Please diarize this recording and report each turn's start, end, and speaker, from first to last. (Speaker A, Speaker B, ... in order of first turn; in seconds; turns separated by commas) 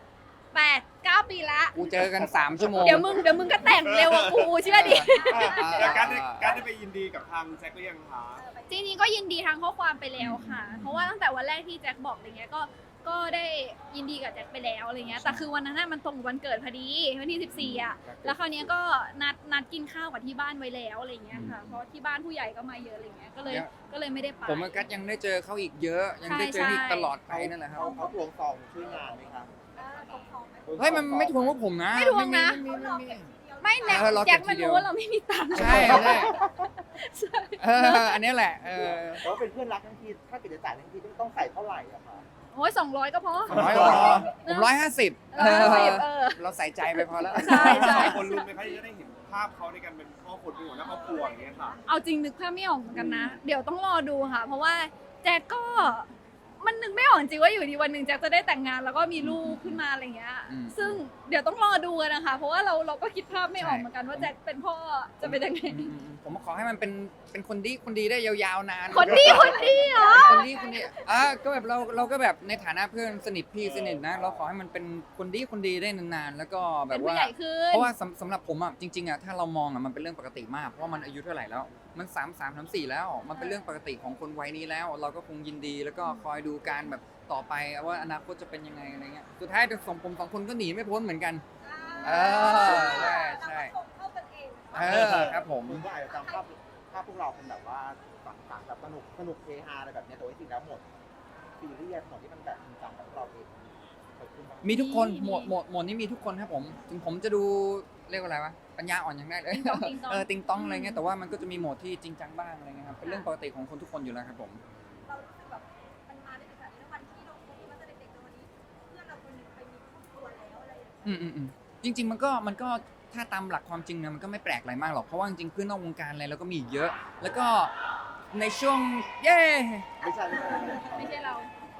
Speaker A: 0.5-1.9, Speaker B: 1.7-3.4, Speaker C: 2.4-8.4, Speaker A: 2.8-6.0, Speaker B: 4.6-6.6, Speaker D: 4.7-6.6, Speaker D: 8.3-8.9, Speaker A: 8.7-24.8, Speaker B: 10.2-11.1, Speaker B: 15.1-15.5, Speaker B: 17.5-18.3, Speaker E: 18.1-18.7, Speaker B: 21.3-21.8, Speaker B: 23.4-23.7, Speaker B: 24.4-27.9, Speaker A: 26.2-27.1, Speaker E: 27.2-29.5, Speaker D: 27.8-28.2, Speaker D: 29.7-30.9, Speaker E: 30.6-31.6, Speaker B: 30.8-34.9, Speaker A: 31.9-32.6, Speaker D: 32.5-34.3, Speaker A: 33.6-38.2, Speaker B: 35.5-36.4, Speaker E: 35.5-36.7, Speaker B: 37.6-39.3, Speaker E: 38.7-42.3, Speaker A: 42.5-44.7, Speaker B: 43.5-48.2, Speaker E: 43.5-44.3, Speaker C: 43.5-44.2, Speaker A: 45.3-48.5, Speaker C: 47.4-51.9, Speaker D: 50.5-51.8, Speaker A: 51.9-65.9, Speaker B: 59.2-59.8, Speaker B: 60.5-61.0, Speaker B: 63.5-64.3, Speaker B: 65.2-91.4, Speaker A: 68.9-70.5, Speaker D: 69.8-70.9, Speaker C: 73.6-74.4, Speaker A: 76.9-77.9, Speaker A: 83.3-83.7, Speaker D: 91.6-95.3, Speaker A: 92.0-92.9, Speaker B: 92.0-93.7, Speaker B: 94.7-95.8, Speaker E: 94.8-100.8, Speaker D: 96.1-96.4, Speaker E: 101.6-104.8, Speaker B: 104.6-114.6, Speaker A: 104.7-105.5, Speaker A: 109.5-111.1, Speaker D: 113.0-113.3, Speaker D: 115.0-121.1, Speaker B: 121.0-127.7, Speaker B: 128.3-129.9, Speaker E: 130.0-131.3, Speaker A: 130.9-131.5